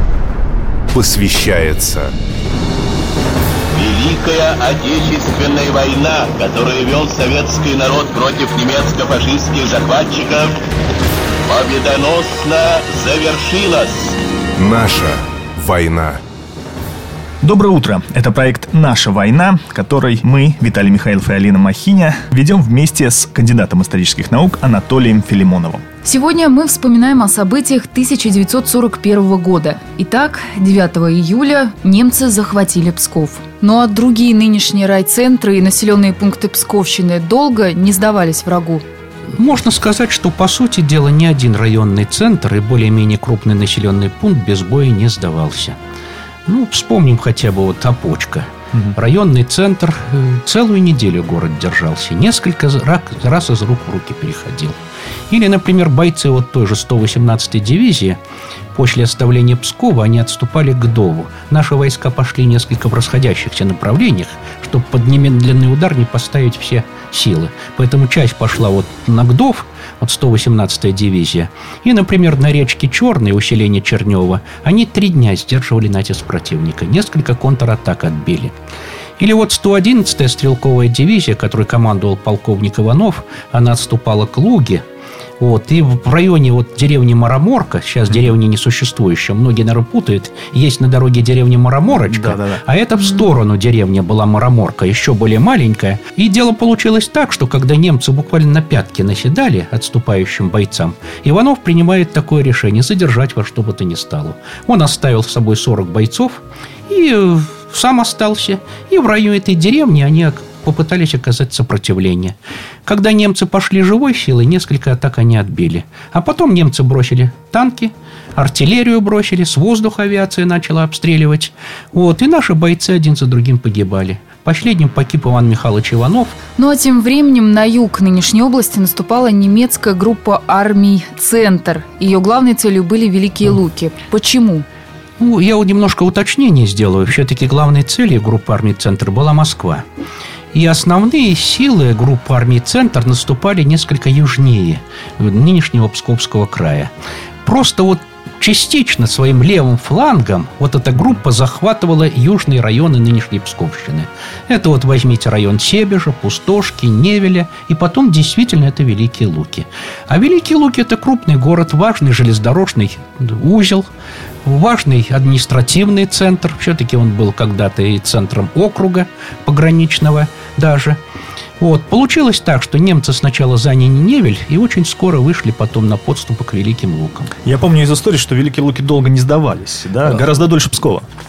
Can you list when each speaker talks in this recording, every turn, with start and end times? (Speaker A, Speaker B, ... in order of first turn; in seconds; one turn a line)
Speaker A: 0.9-2.1
Speaker B: 3.7-10.6
Speaker B: 11.5-14.2
Speaker A: 14.6-16.2
Speaker C: 17.4-25.8
Speaker D: 26.0-38.8
Speaker E: 39.3-45.8
Speaker E: 46.5-54.8
Speaker E: 55.3-58.2
Speaker E: 58.8-78.5
Speaker E: 79.2-84.8
Speaker E: 85.4-126.4
Speaker C: 91.9-92.6
Speaker D: 126.6-134.7
Speaker E: 135.2-139.8
Speaker E: 140.5-146.9
Speaker E: 147.4-163.9
Speaker E: 164.4-171.0
Speaker E: 171.6-177.3
Speaker C: 177.4-181.1